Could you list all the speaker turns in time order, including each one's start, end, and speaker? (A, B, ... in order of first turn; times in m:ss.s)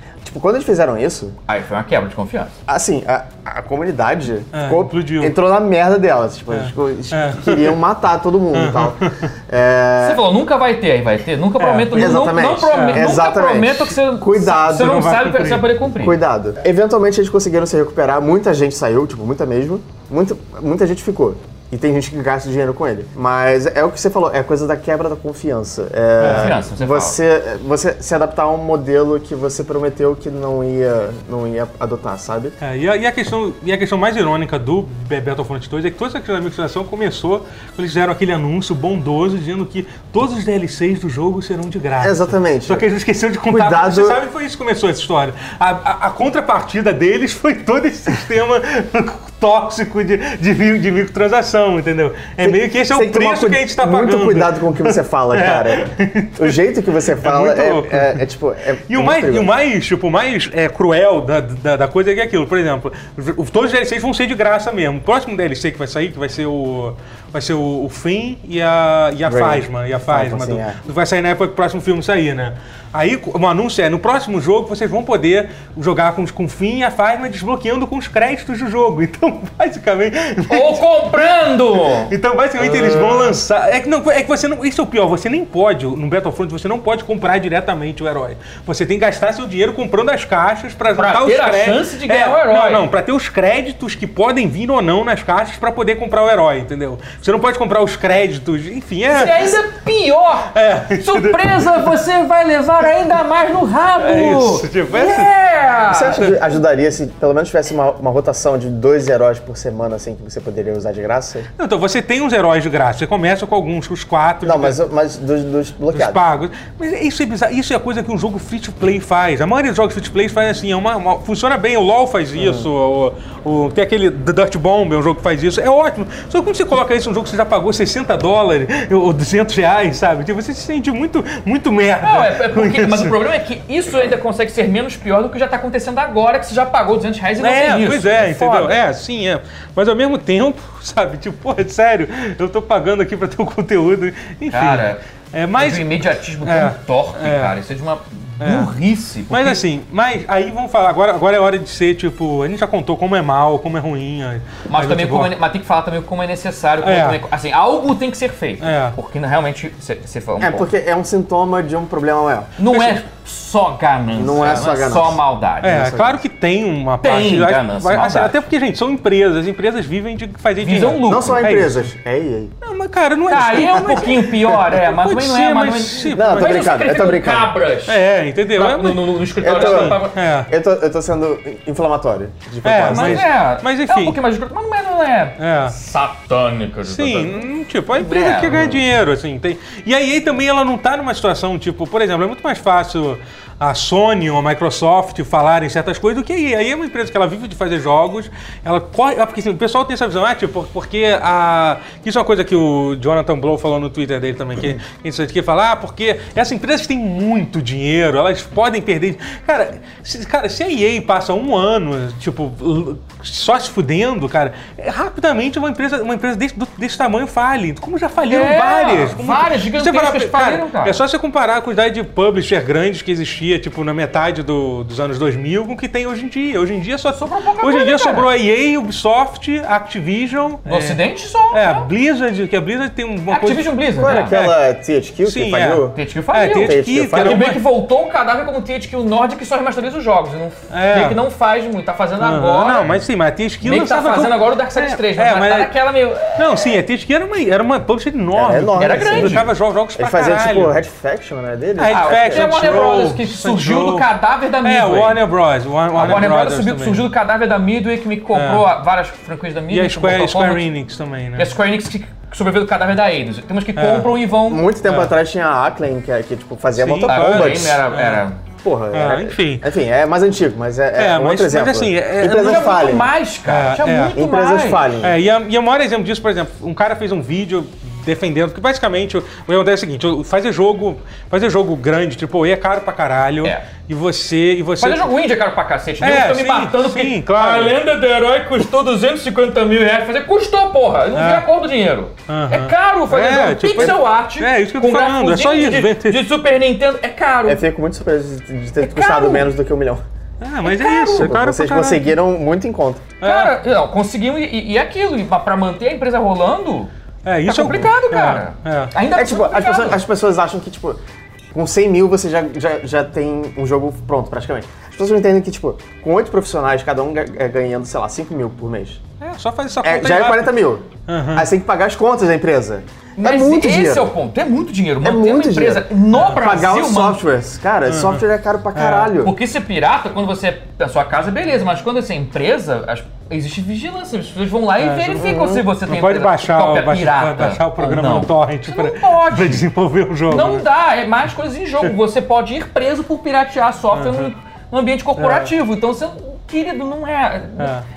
0:00.2-0:01.4 A
0:01.5-0:02.5 B
0:02.7-0:10.2 A
0:04.5-0:05.3 C
0:06.5-0:07.8 C
0:08.5-0:09.2 C
0:10.0-0:16.2 B
0:11.6-0:12.1 C
0:11.9-0:15.0 A
0:12.7-0:13.1 C
0:14.7-0:15.7 C
0:16.0-0:32.6 A
0:26.2-0:27.2 B
0:26.2-0:26.6 C
0:32.6-0:58.2 C
0:42.0-0:42.8 A
0:43.5-0:44.2 A
0:52.4-0:59.5 A
0:58.9-1:39.6 C
1:09.2-1:10.8 A
1:20.5-1:23.4 B
1:30.9-1:32.9 B
1:39.1-1:46.3 B
1:40.5-1:41.9 C
1:44.0-1:45.3 C
1:45.9-1:51.5 A
1:46.0-1:46.4 C
1:51.6-1:54.8 C
1:54.4-1:56.2 A
1:55.9-2:13.2 C
2:02.4-2:02.7 A
2:12.0-2:18.8 B
2:17.4-2:27.5 C
2:24.5-2:25.0 B
2:25.6-2:29.6 B
2:28.4-2:28.7 C
2:29.3-2:35.3 C
2:34.7-2:40.7 B
2:36.8-2:37.2 C
2:38.6-2:39.0 C
2:40.4-2:42.5 A
2:42.6-2:45.9 B
2:42.7-2:43.0 C
2:44.1-2:46.2 A
2:45.6-2:51.9 C
2:47.0-2:48.4 B
2:50.6-2:51.4 B
2:51.0-2:52.5 A
2:52.6-2:56.7 C
2:53.3-2:58.0 B
2:56.1-2:57.5 A
2:57.9-3:00.5 C
2:58.5-3:00.2 B
2:59.4-3:03.3 A
3:02.6-3:04.2 C
3:02.9-3:07.4 B
3:05.4-3:05.7 C
3:06.8-3:54.6 C
3:08.0-3:08.8 B
3:38.2-3:41.0 B
3:47.1-3:48.3 B
3:50.6-3:51.9 B
3:53.3-3:54.3 B
3:54.0-3:56.0 A
3:55.2-3:57.6 C
3:55.9-4:02.9 B
3:56.5-3:57.5 A
4:00.7-4:01.2 C
4:02.2-4:05.7 C
4:03.6-4:06.6 B
4:06.3-4:10.7 C
4:08.3-4:12.8 A
4:08.8-4:09.5 B
4:11.8-4:14.1 C
4:11.9-4:15.2 B
4:14.6-4:17.0 C
4:15.9-4:20.7 B
4:18.3-4:18.7 C
4:19.7-4:21.5 C
4:21.4-4:24.7 B
4:23.8-4:24.1 C
4:24.4-4:27.8 A
4:24.8-4:25.1 C
4:26.7-4:28.2 C
4:27.1-4:28.4 B
4:28.6-4:33.1 A
4:28.9-4:29.6 C
4:31.0-4:32.8 C
4:32.3-4:35.0 B
4:33.4-4:34.1 C
4:34.1-4:35.2 A
4:35.0-4:45.0 C
4:44.8-4:57.6 B
4:46.0-4:47.8 C
4:51.1-4:51.4 C
4:52.3-4:56.2 C
4:57.4-5:00.0 A
4:58.8-4:59.5 B
5:00.4-5:02.1 C
5:00.6-5:01.3 B
5:01.1-5:03.1 A
5:03.2-5:03.5 C
5:03.2-5:06.9 B
5:07.2-5:08.9 C
5:07.4-5:10.0 B
5:09.1-5:11.0 A
5:11.5-5:19.0 A
5:19.2-5:20.5 C
5:19.8-5:24.1 A
5:21.1-5:21.5 C
5:23.2-5:27.2 B
5:25.0-5:29.3 A
5:27.8-5:28.2 C
5:28.7-5:29.1 C
5:29.2-5:39.6 B
5:34.8-5:35.3 C
5:35.2-5:35.6 A
5:35.8-5:40.6 C
5:40.3-5:47.7 B
5:43.9-5:44.3 C
5:45.2-5:45.5 C
5:47.6-5:47.8 C